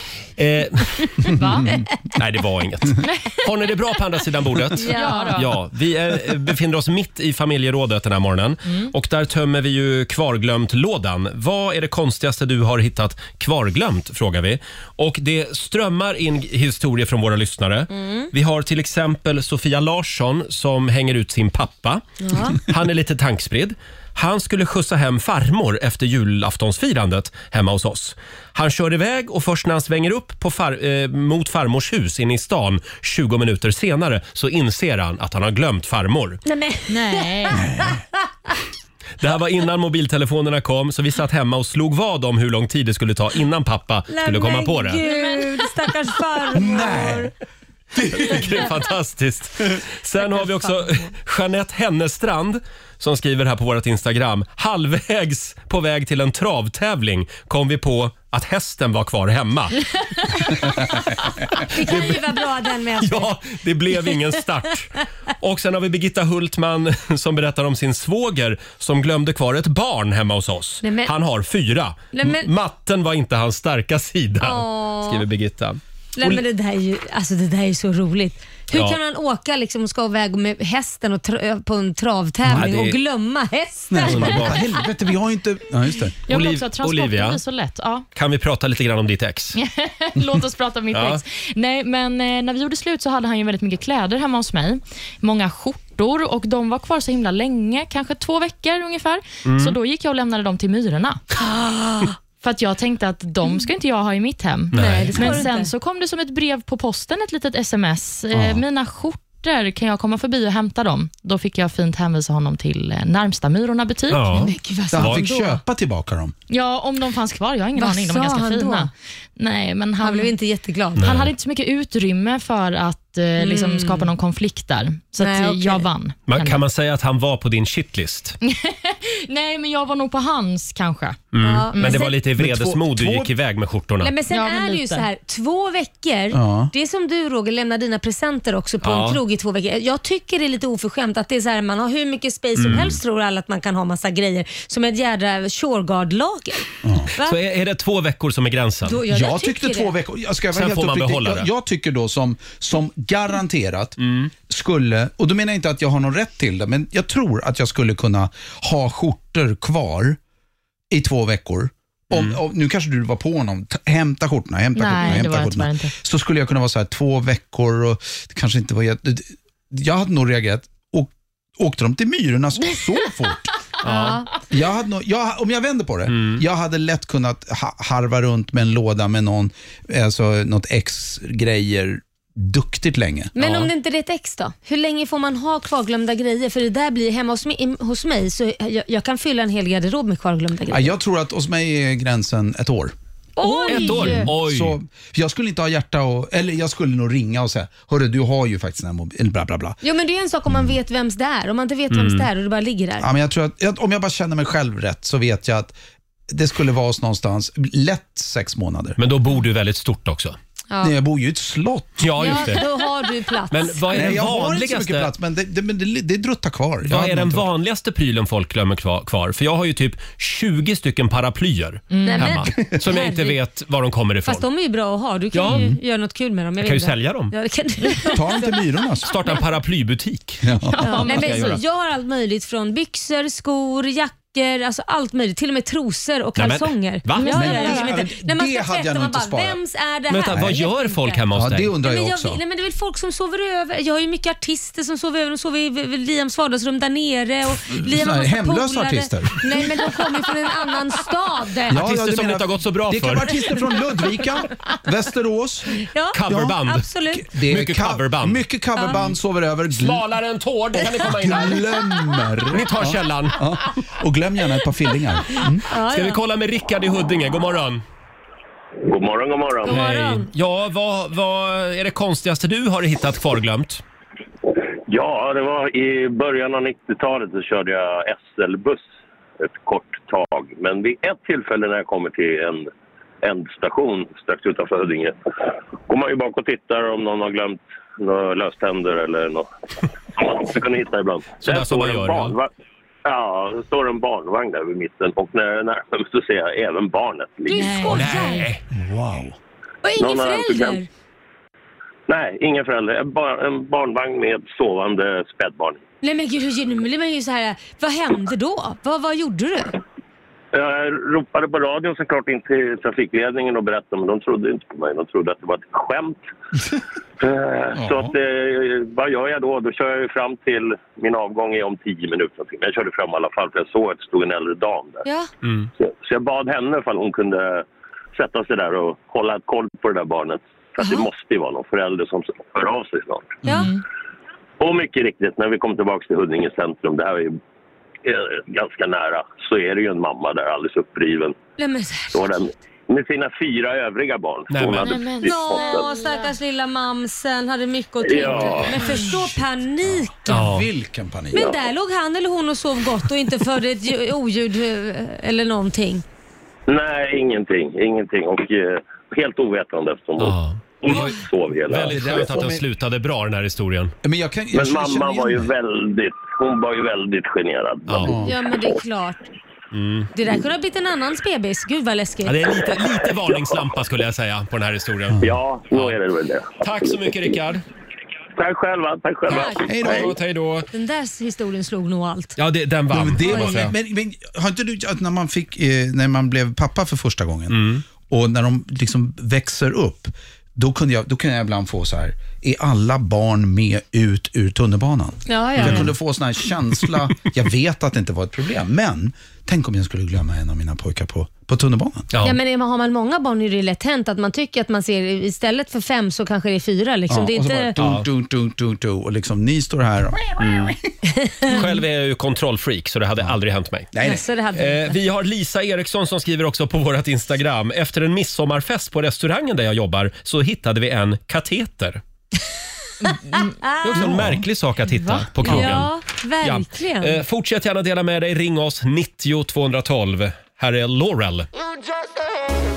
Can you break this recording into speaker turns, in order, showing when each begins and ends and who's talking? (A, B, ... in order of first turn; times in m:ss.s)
0:00.4-0:01.4 A
0:01.3-0:01.7 B
0:01.3-0:01.8 C
0:02.1-0:22.0 A
0:04.8-0:05.4 D
0:04.9-0:05.5 B
0:08.7-0:08.9 B
0:17.9-0:18.3 D
0:22.2-0:22.6 D
0:22.5-0:36.4 A
0:36.4-0:38.0 D
0:36.9-0:37.7 B
0:37.5-0:38.0 C
0:39.2-0:45.0 A
0:44.1-0:47.3 D
0:44.9-0:45.8 B
0:46.5-0:47.3 C
0:47.9-0:48.7 C
0:48.1-1:00.9 A
0:50.2-0:51.1 D
1:01.5-1:02.2 A
1:01.6-1:03.3 D
1:03.0-1:16.4 A
1:03.9-1:04.2 D
1:10.8-1:11.1 D
1:12.1-1:12.5 D
1:14.4-1:15.2 D
1:16.2-1:24.5 D
1:18.7-1:19.0 A
1:22.5-1:23.0 A
1:23.9-1:26.2 C
1:24.0-1:24.6 A
1:26.3-1:27.4 A
1:26.3-1:28.0 B
1:28.2-1:29.6 A
1:29.6-1:41.2 B
1:30.9-1:31.2 A
1:39.5-1:39.8 A
1:41.4-1:42.2 D
1:42.4-1:54.4 B
1:44.7-1:45.4 A
1:44.7-1:45.7 D
1:48.3-1:48.6 C
1:54.1-1:55.2 A
1:54.3-1:55.6 D
1:54.9-1:56.4 C
1:56.5-2:00.4 B
1:57.8-1:58.9 D
2:00.0-2:01.0 D
2:01.0-2:01.3 A
2:01.0-2:06.6 B
2:03.4-2:04.1 D
2:05.2-2:05.9 D
2:06.3-2:08.4 A
2:08.4-2:11.2 B
2:11.3-2:14.1 A
2:11.4-2:12.2 D
2:11.8-2:12.0 B
2:12.4-2:13.3 C
2:14.0-2:27.4 D
2:14.3-2:15.1 B
2:16.3-2:16.7 C
2:18.8-2:19.2 A
2:22.6-2:23.0 A
2:26.8-2:27.1 C
2:27.2-2:29.0 A
2:28.9-2:29.9 D
2:29.1-2:40.2 C
2:30.5-2:31.5 A
2:34.0-2:34.3 A
2:40.9-2:53.6 C
2:42.1-2:42.4 A
2:44.8-2:45.9 B
2:53.8-2:54.2 A
2:53.8-2:54.3 D
2:54.5-3:03.3 C
2:56.1-2:56.4 A
3:03.4-3:10.9 D
3:03.4-3:03.7 A
3:10.7-3:13.0 C
3:13.4-3:14.3 D
3:13.7-3:14.8 A
3:13.7-3:19.8 C
3:19.8-3:23.1 D
3:21.9-3:22.3 A
3:23.0-3:25.8 C
3:26.3-3:29.0 C
3:29.0-3:30.4 A
3:30.7-3:31.0 D
3:30.8-3:32.4 C
3:32.0-3:32.7 A
3:32.2-3:34.2 D
3:33.5-3:35.1 A
3:33.9-3:37.5 C
3:36.8-3:44.5 A
3:41.9-3:42.4 B
3:42.0-3:43.4 D
3:44.3-3:48.6 D
3:45.3-3:45.7 A
3:45.5-3:45.8 C
3:46.6-3:47.4 A
3:48.1-3:49.1 C
3:49.0-3:50.5 A
3:50.4-3:50.8 C
3:50.6-3:51.6 B
3:51.0-4:01.2 D
3:51.1-3:51.6 A
3:56.4-3:57.8 A
3:57.2-3:58.0 B
3:57.3-3:59.6 C
4:00.1-4:01.7 A
4:00.3-4:00.6 C
4:01.4-4:02.4 C
4:01.8-4:11.8 D
4:07.8-4:09.9 C
4:11.7-4:20.0 C
4:11.7-4:13.4 A
4:15.9-4:17.3 D
4:16.1-4:16.9 A
4:17.4-4:18.4 A
4:19.7-4:21.7 A
4:20.8-4:25.6 C
4:22.5-4:23.5 A
4:25.4-4:26.2 D
4:25.9-4:27.8 A
4:28.8-4:29.8 E
4:29.6-4:30.3 D
4:29.7-4:33.8 A
4:34.9-4:38.9 E
4:39.4-4:42.7 E
4:43.2-4:45.2 E
4:45.9-4:49.5 E
4:50.1-4:52.5 E
4:51.4-4:52.4 A
4:53.0-4:57.8 E
4:57.5-4:58.5 D
4:57.5-4:58.4 B
4:57.9-4:58.6 A
4:58.7-4:59.4 C
4:59.8-5:00.9 D
5:00.0-5:00.8 E
5:02.1-5:05.8 E
5:06.0-5:09.8 D
5:10.5-5:16.2 E
5:17.2-5:25.0 E
5:17.8-5:18.2 C
5:25.0-5:25.3 D
5:25.4-5:25.7 A
5:25.8-5:33.4 E
5:30.8-5:31.1 D
5:33.4-5:33.7 D
5:33.5-5:33.8 B
5:34.6-5:37.4 E
5:38.0-5:41.4 E
5:41.6-5:42.3 D
5:42.1-5:45.9 E
5:44.5-5:45.0 A
5:44.8-5:46.4 B
5:45.2-5:50.5 D
5:48.0-5:48.8 E
5:48.2-5:49.1 B
5:48.9-5:51.6 C
5:50.3-5:50.7 A
5:51.3-5:56.0 D
5:56.7-6:02.2 E
6:00.2-6:04.0 A
6:01.7-6:02.6 C
6:04.0-6:05.5 C
6:04.5-6:08.2 E
6:08.0-6:08.3 C
6:08.2-6:09.2 D
6:09.7-6:10.1 A
6:10.2-6:12.4 D
6:12.2-6:16.0 A
6:13.3-6:13.6 E
6:15.2-6:16.5 E
6:16.6-6:17.6 A
6:18.4-6:20.1 E
6:19.3-6:19.6 D
6:19.3-6:20.7 A
6:19.7-6:20.1 C
6:20.7-6:22.4 D
6:22.4-6:23.8 A
6:22.9-6:42.1 C
6:23.2-6:23.7 D
6:27.5-6:27.8 A
6:35.3-6:35.9 D
6:35.6-6:35.9 A
6:42.1-6:42.4 A
6:42.2-6:47.8 D
6:47.1-6:50.8 C
6:47.8-6:48.1 A
6:50.4-6:50.8 A
6:51.3-6:51.6 D
6:51.4-6:53.9 A
6:53.9-6:54.2 C
6:54.0-6:55.0 D
6:54.6-7:02.0 A
7:03.0-7:03.6 B
7:03.6-7:04.1 D
7:03.8-7:11.5 A
7:03.9-7:04.5 C
7:04.8-7:05.6 B
7:05.4-7:07.2 D